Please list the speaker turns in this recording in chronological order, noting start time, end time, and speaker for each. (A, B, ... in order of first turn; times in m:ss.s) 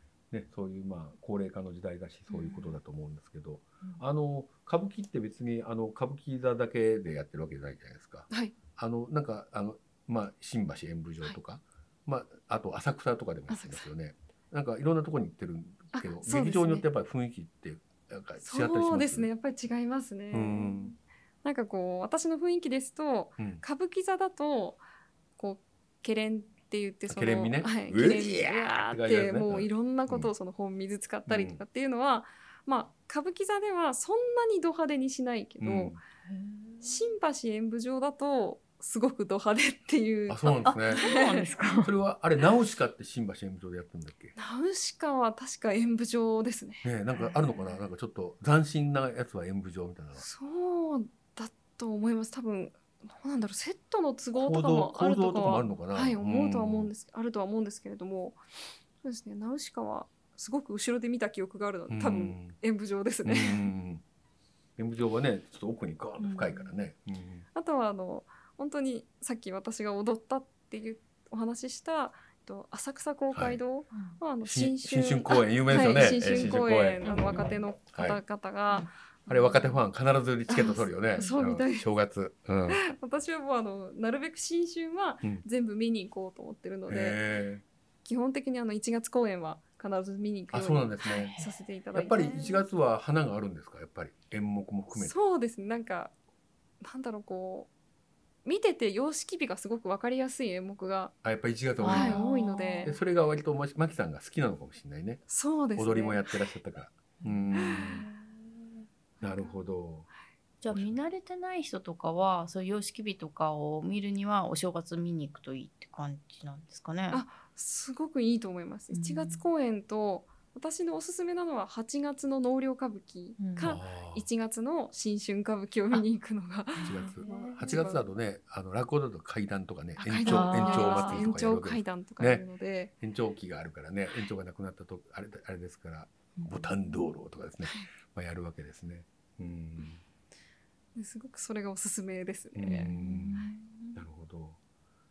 0:00.3-0:19.3 A
0:02.3-0:02.7 B
0:13.5-0:13.8 B
0:15.9-0:16.8 B
0:18.4-0:24.8 B
0:20.3-0:20.9 A
0:25.4-0:35.9 B
0:27.0-0:30.3 A
0:31.3-0:31.6 A
0:35.6-0:36.0 A
0:36.2-0:37.1 C
0:36.8-0:41.4 B
0:40.3-0:41.1 A
0:40.6-0:41.9 C
0:41.8-0:44.3 A
0:44.4-0:46.9 B
0:46.8-0:50.2 A
0:50.2-0:58.4 B
0:54.4-0:56.9 A
0:59.0-1:03.7 B
1:01.9-1:02.6 A
1:03.2-1:04.0 A
1:04.8-1:07.4 A
1:06.2-1:06.7 C
1:07.5-1:19.8 B
1:13.3-1:13.6 A
1:13.9-1:14.2 C
1:14.4-1:17.1 A
1:15.9-1:16.5 C
1:17.0-1:17.6 C
1:17.9-1:18.2 A
1:19.3-1:22.8 A
1:20.5-1:21.9 B
1:21.2-1:21.4 C
1:22.7-1:27.2 B
1:26.9-1:27.6 A
1:28.0-1:32.6 B
1:30.5-1:31.4 A
1:31.0-1:32.6 C
1:31.9-1:35.1 A
1:34.9-1:36.1 B
1:36.8-1:37.7 B
1:38.4-1:41.1 B
1:41.2-1:42.3 A
1:41.8-1:43.0 C
1:41.8-1:42.9 B
1:42.8-1:45.2 A
1:45.3-1:46.2 B
1:45.8-1:48.0 A
1:47.2-1:48.7 C
1:47.5-1:48.0 B
1:49.2-1:49.5 B
1:49.2-1:50.1 A
1:50.6-1:57.2 C
1:50.7-1:51.0 A
1:57.1-2:08.0 B
1:58.9-1:59.4 C
2:03.4-2:03.7 C
2:03.6-2:04.3 A
2:06.7-2:07.8 C
2:06.8-2:12.4 A
2:10.0-2:12.9 B
2:10.2-2:11.3 C
2:13.0-2:20.0 A
2:16.4-2:17.1 C
2:17.6-2:17.9 B
2:20.9-2:23.6 B
2:22.5-2:23.4 A
2:22.7-2:23.7 C
2:24.0-2:24.6 A